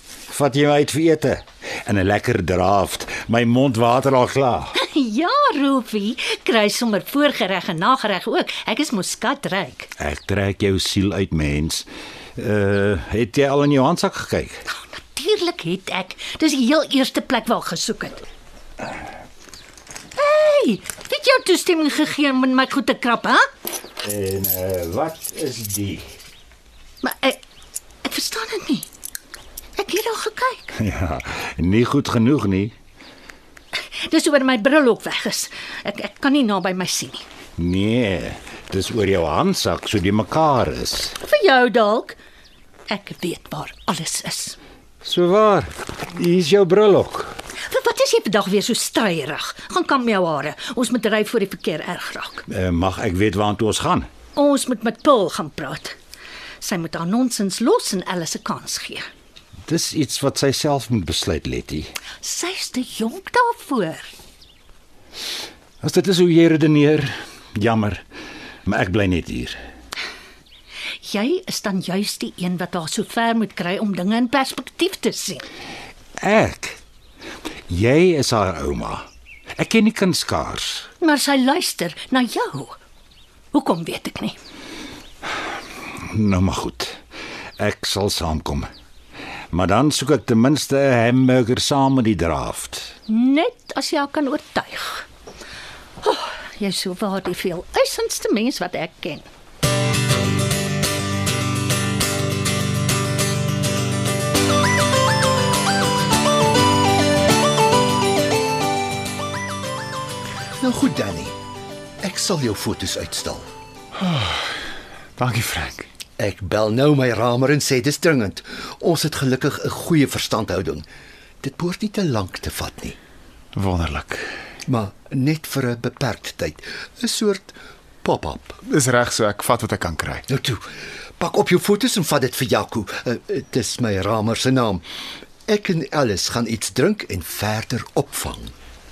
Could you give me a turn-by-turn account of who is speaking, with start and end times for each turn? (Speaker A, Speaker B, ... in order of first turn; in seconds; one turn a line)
Speaker A: 0.3-4.7
Speaker B: 4.7-9.9
Speaker A: 10.0-14.6
Speaker B: 14.7-18.2
Speaker B: 20.1-23.4
Speaker A: 24.0-26.0
Speaker B: 27.0-27.4
Speaker B: 28.0-28.9
Speaker B: 29.8-30.7
Speaker A: 30.8-32.7
Speaker B: 34.0-37.2
Speaker A: 37.6-41.2
Speaker B: 41.2-42.1
Speaker B: 42.9-44.5
Speaker A: 45.0-47.4
Speaker B: 47.7-52.4
Speaker A: 52.5-54.1
Speaker B: 54.4-55.9
Speaker B: 56.6-59.0
Speaker A: 59.6-61.9
Speaker B: 62.2-64.1
Speaker A: 65.8-68.0
Speaker A: 68.7-69.6
Speaker B: 71.0-75.4
Speaker A: 76.2-76.8
Speaker A: 77.7-80.9
Speaker B: 81.0-82.8
Speaker B: 83.5-84.3
Speaker A: 85.9-87.0
Speaker A: 87.6-88.7
Speaker A: 89.5-92.9
Speaker B: 93.1-95.0
Speaker B: 96.0-99.2
Speaker C: 110.6-111.3
Speaker C: 112.0-113.4
Speaker D: 114.0-114.4
Speaker D: 115.2-115.8
Speaker C: 116.2-120.8
Speaker C: 121.4-123.0
Speaker D: 123.5-124.3
Speaker C: 124.7-128.6
Speaker D: 128.7-130.2
Speaker C: 130.3-130.6
Speaker C: 131.2-134.8
Speaker C: 135.5-138.5